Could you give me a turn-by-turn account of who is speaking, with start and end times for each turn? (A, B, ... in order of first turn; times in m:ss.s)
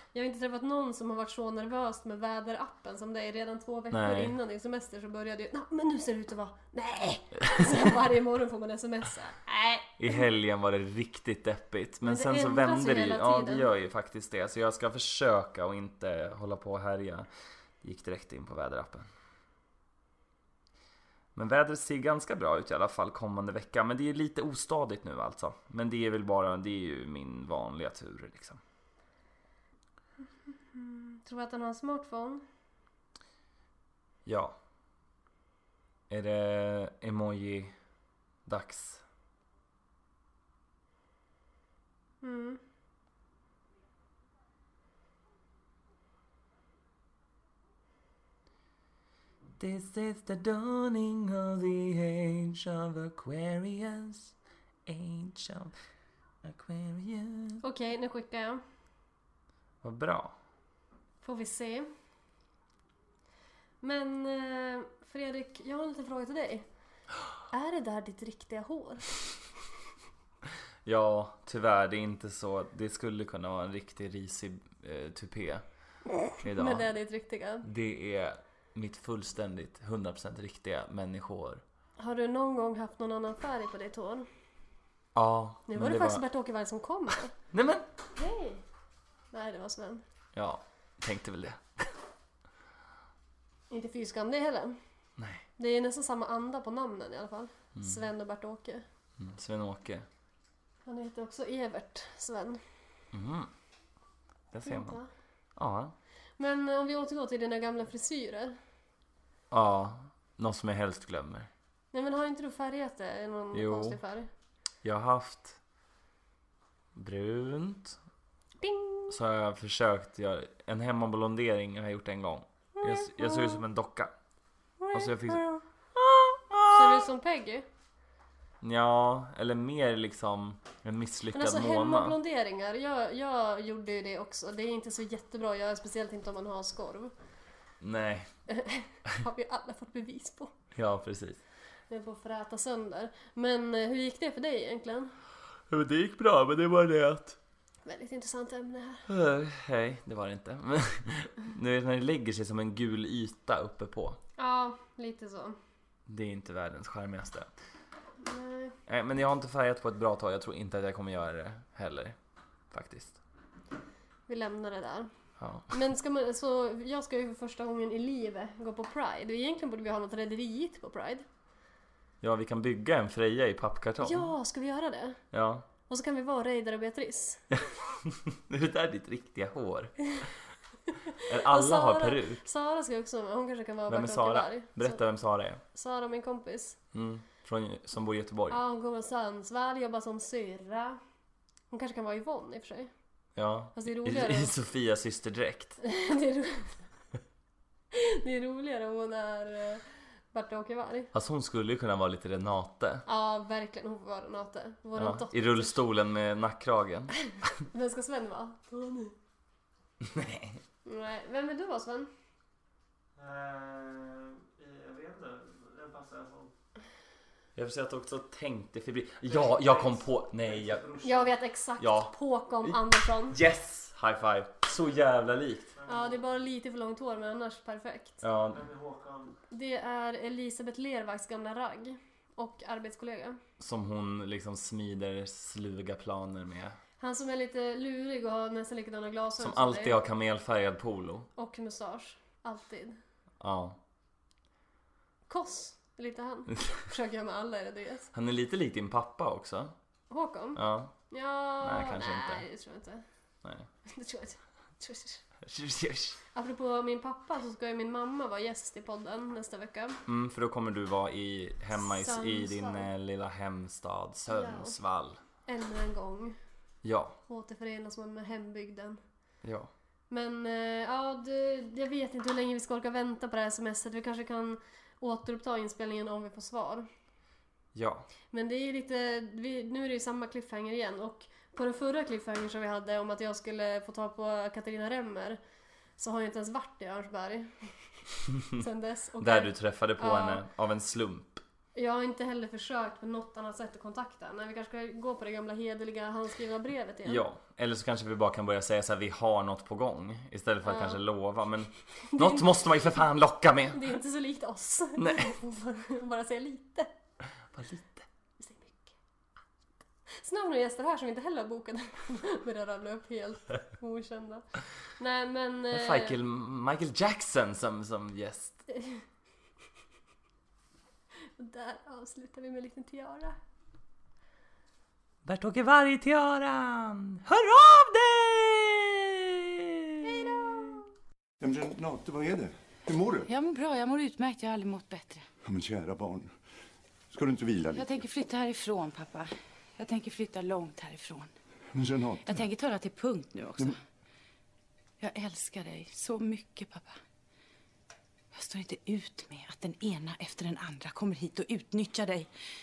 0:00.1-0:10.2 A
0:03.9-0:04.3 B
0:10.0-0:17.3 B
0:12.0-0:13.6 A
0:17.8-0:19.1 B
0:21.3-0:28.6 B
0:30.5-0:32.4 A
0:34.3-0:34.6 B
0:36.1-0:37.7 B
0:38.4-0:39.0 B
0:42.2-0:42.6 A
0:49.6-0:54.3 B
0:54.9-0:55.7 B
0:56.4-0:57.6 B
0:57.6-0:58.6 A
0:59.8-1:00.4 B
1:01.2-1:01.9 A
1:03.8-1:06.6 A
1:07.5-1:09.1 A
1:10.8-1:15.6 B
1:16.3-1:16.9 B
1:16.5-1:17.6 A
1:17.6-1:21.6 B
1:22.0-1:24.3 A
1:25.1-1:26.2 B
1:25.7-1:27.3 A
1:27.5-1:27.9 B
1:28.1-1:28.6 A
1:29.3-1:30.0 A
1:30.3-1:31.9 B
1:33.7-1:34.8 A
1:35.2-1:35.4 B
1:35.6-1:38.8 A
1:39.2-1:40.1 B
1:40.9-1:42.6 A
1:43.1-1:43.5 B
1:44.5-1:45.0 B
1:44.6-1:45.1 A
1:45.6-1:46.0 B
1:46.4-1:48.6 A
1:49.5-1:51.5 B
1:51.9-1:54.3 A
1:53.5-1:54.0 B
1:54.8-1:55.6 B
1:57.0-1:58.0 B
1:58.6-1:59.2 A
1:59.1-2:04.1 B
2:02.8-2:03.6 A
2:04.8-2:07.7 A
2:04.9-2:05.6 B
2:06.5-2:07.1 B
2:08.6-2:12.2 B
2:11.3-2:17.1 A
2:17.8-2:18.3 B
2:18.5-2:20.5 A
2:20.7-2:21.4 B
2:21.9-2:25.1 A
2:25.7-2:27.4 B
2:27.8-2:29.0 A
2:29.1-2:34.2 B
2:34.4-2:35.6 A
2:36.1-2:37.5 B
2:38.2-2:38.8 A
2:38.9-2:42.2 B
2:42.7-2:43.2 B
2:44.3-2:45.1 A
2:45.4-2:45.7 B
2:45.7-2:51.3 A
2:52.2-2:54.3 B
2:54.0-2:55.2 A
2:55.3-2:55.6 B
2:55.9-2:57.4 A
2:57.5-3:00.2 B
3:01.2-3:02.4 B
3:01.4-3:05.0 A
3:03.9-3:05.6 B
3:05.7-3:06.8 A
3:06.9-3:08.6 B
3:08.5-3:11.0 A
3:11.7-3:12.9 A
3:13.4-3:15.8 B
3:13.7-3:14.5 A
3:15.8-3:16.8 A
3:17.9-3:21.1 A
3:21.1-3:23.0 B
3:23.0-3:25.8 A
3:25.0-3:27.4 B
3:27.7-3:29.1 A
3:30.0-3:30.6 B
3:30.8-3:32.1 A
3:33.2-3:36.5 C
3:37.6-3:41.0 B
3:39.3-3:41.3 C
3:41.0-3:43.4 A
3:41.8-3:42.1 B
3:42.6-3:45.7 B
3:45.8-3:46.2 C
3:45.9-3:48.2 A
3:48.2-3:48.7 B
3:48.5-3:49.4 C
3:49.5-3:53.4 A
3:53.6-3:56.8 B
3:57.0-4:00.0 A
3:59.4-4:01.3 B
4:01.4-4:03.0 A
4:03.4-4:03.8 B
4:05.3-4:08.1 A
4:08.1-4:09.7 B
4:10.1-4:13.0 A
4:10.6-4:11.0 B
4:11.6-4:12.4 B
4:13.8-4:15.2 A
4:15.4-4:16.2 B
4:16.3-4:20.0 A
4:20.1-4:25.2 B
4:21.7-4:22.9 A
4:24.3-4:24.8 A
4:25.4-4:26.4 A
4:26.8-4:27.2 B
4:27.3-4:29.0 A
4:29.4-4:29.7 B
4:30.1-4:36.9 A
4:37.7-4:38.1 B
4:38.3-4:45.4 A
4:46.0-4:47.7 A
4:48.5-4:50.4 A
4:49.2-4:51.4 B
4:51.8-4:57.3 A
4:57.0-5:03.9 B
5:00.6-5:01.0 A
5:02.1-5:02.5 A
5:03.7-5:06.9 A
5:05.0-5:05.4 B
5:07.6-5:08.0 B
5:08.4-5:08.9 A
5:10.2-5:14.5 A
5:15.0-5:16.2 A
5:15.7-5:18.6 B
5:18.7-5:19.0 A
5:21.4-5:23.4 A
5:25.2-5:30.8 B
5:30.0-5:30.8 A
5:31.4-5:33.3 D
5:33.3-5:35.3 E
5:35.4-5:36.3 D
5:37.1-5:37.9 D
5:37.7-5:41.3 E
5:41.7-5:42.4 D
5:42.2-5:43.8 E
5:45.0-5:47.0 E
5:48.3-5:52.3 E